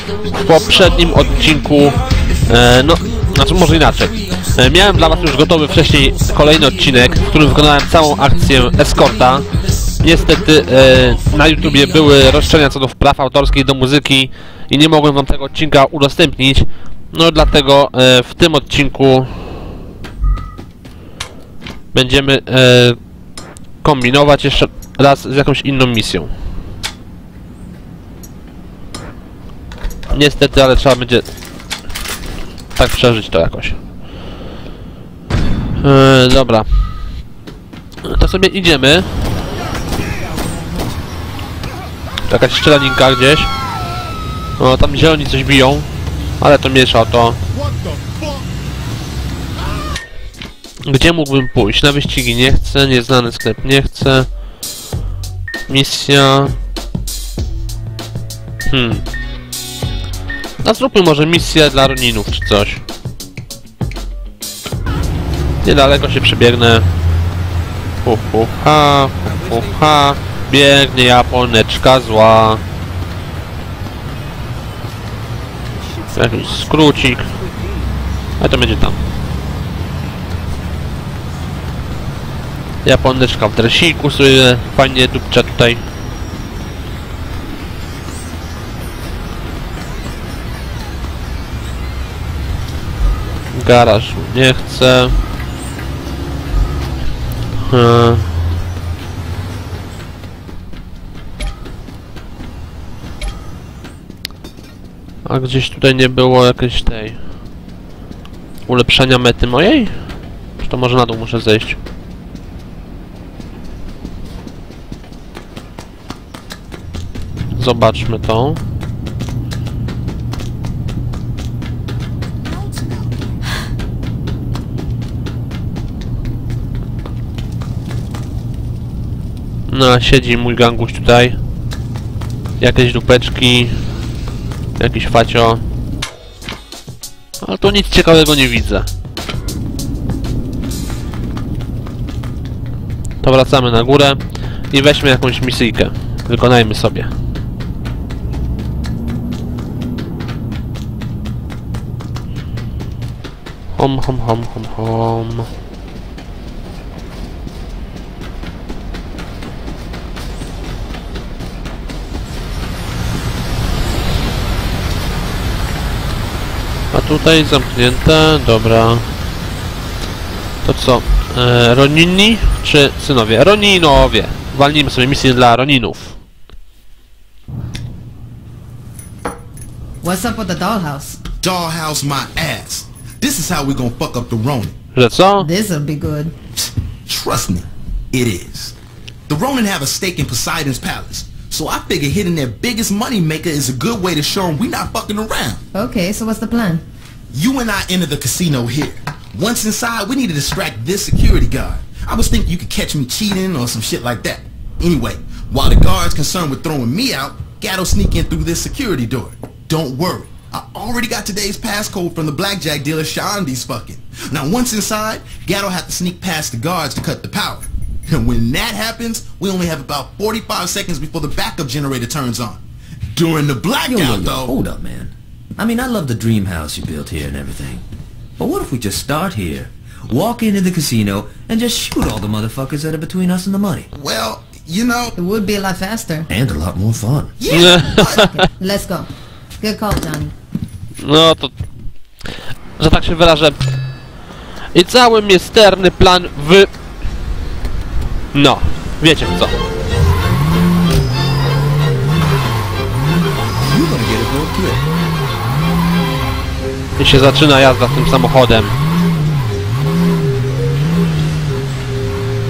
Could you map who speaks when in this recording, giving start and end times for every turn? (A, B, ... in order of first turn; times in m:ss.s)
0:00.2-0:09.5 A
0:10.0-0:19.5 A
0:21.9-0:23.0 A
0:23.8-0:26.3 A
0:30.1-0:31.3 A
0:32.8-0:33.8 A
0:35.8-0:36.7 A
0:38.0-0:39.1 A
0:42.3-0:43.5 A
0:44.6-0:45.9 A
0:46.4-0:47.4 A
0:47.5-0:48.4 B
0:50.8-0:54.3 A
0:55.7-0:56.5 A
0:58.7-0:59.0 A
1:00.6-1:02.8 A
1:05.6-1:06.9 A
1:08.0-1:12.6 A
1:16.1-1:17.3 A
1:18.4-1:19.0 A
1:22.8-1:25.8 A
1:33.5-1:35.2 A
1:37.7-1:38.3 A
1:45.2-1:47.2 A
1:48.7-1:50.0 A
1:50.6-1:51.8 A
1:57.6-1:58.6 A
2:09.7-2:11.4 A
2:12.6-2:13.8 A
2:14.8-2:15.6 A
2:17.4-2:18.9 A
2:23.2-2:24.2 A
2:24.7-2:27.1 A
2:33.8-2:35.5 A
2:46.9-2:49.0 A
2:50.6-2:56.2 A
3:00.0-3:01.2 C
3:01.4-3:04.8 B
3:04.9-3:05.5 A
3:05.4-3:06.3 C
3:06.6-3:08.8 B
3:09.3-3:15.6 B
3:15.7-3:16.8 C
3:17.3-3:42.6 B
3:43.1-3:44.6 B
3:43.9-3:47.8 D
3:48.4-3:53.9 D
3:53.9-3:55.1 B
3:55.2-3:56.3 C
3:56.3-3:57.3 D
3:57.4-3:58.3 B
3:57.5-3:58.3 A
3:57.8-3:59.1 C
3:59.6-4:00.3 C
4:01.0-4:01.5 A
4:02.8-4:03.6 A
4:04.7-4:06.7 A
4:08.3-4:09.6 A
4:13.6-4:14.8 D
4:17.0-4:18.8 A